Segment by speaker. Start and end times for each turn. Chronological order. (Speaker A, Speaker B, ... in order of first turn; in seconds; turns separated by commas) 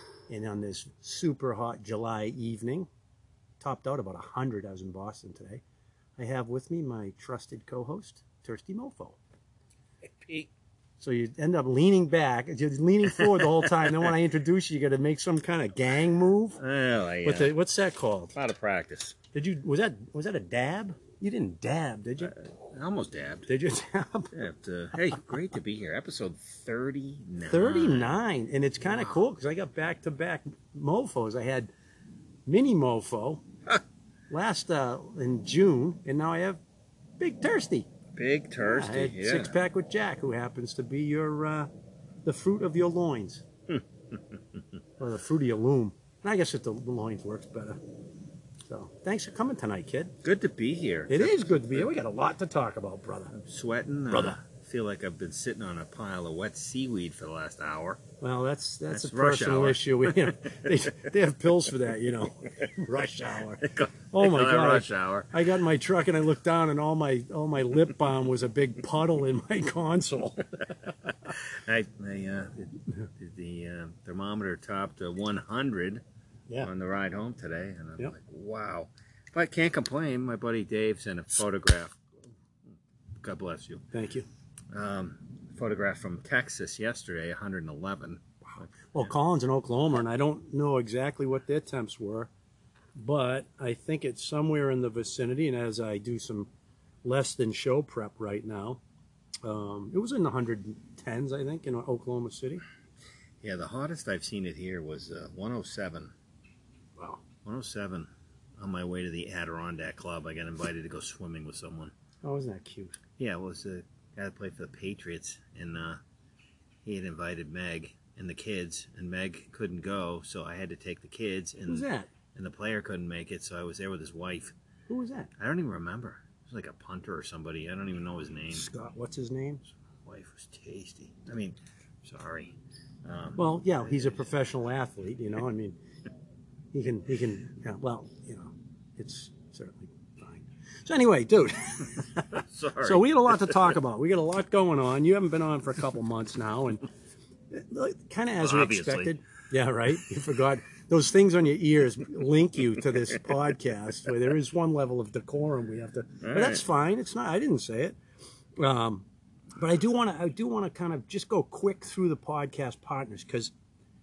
Speaker A: 0.3-2.9, Speaker A: 3.6-5.6, Speaker A: 6.2-9.2, Speaker B: 10.1-10.5, Speaker A: 11.0-16.6, Speaker B: 13.1-14.1, Speaker B: 16.6-17.5, Speaker A: 17.2-18.3, Speaker B: 18.3-19.1, Speaker A: 19.3-22.3, Speaker B: 22.2-23.5, Speaker A: 23.5-24.4, Speaker B: 24.3-28.1, Speaker A: 24.9-25.4, Speaker A: 27.4-31.7, Speaker A: 32.5-33.4, Speaker A: 34.3-36.6, Speaker A: 37.2-37.9, Speaker B: 38.1-39.5, Speaker A: 38.6-41.7, Speaker A: 42.2-43.4, Speaker A: 45.0-47.8, Speaker A: 48.7-50.1, Speaker B: 50.2-51.9, Speaker A: 51.1-53.4, Speaker B: 53.3-58.0, Speaker A: 54.1-54.4, Speaker A: 58.2-70.7, Speaker B: 58.9-60.7, Speaker B: 63.6-65.3, Speaker B: 71.2-76.0, Speaker B: 76.6-82.0, Speaker B: 82.7-83.8, Speaker A: 83.9-84.2, Speaker B: 84.7-88.6, Speaker A: 88.9-92.3, Speaker A: 93.0-96.5, Speaker A: 97.0-98.8, Speaker A: 99.4-102.6, Speaker B: 103.4-106.1, Speaker B: 107.4-111.9, Speaker A: 112.2-113.0, Speaker B: 113.2-116.0, Speaker B: 116.8-124.5, Speaker A: 121.7-122.1, Speaker A: 124.9-125.3, Speaker B: 125.4-128.7, Speaker A: 128.5-129.6, Speaker B: 130.0-133.4, Speaker A: 133.4-135.8, Speaker A: 136.7-146.8, Speaker B: 142.2-143.7, Speaker A: 147.5-157.9, Speaker B: 148.4-149.2, Speaker B: 156.2-156.6, Speaker A: 158.6-163.5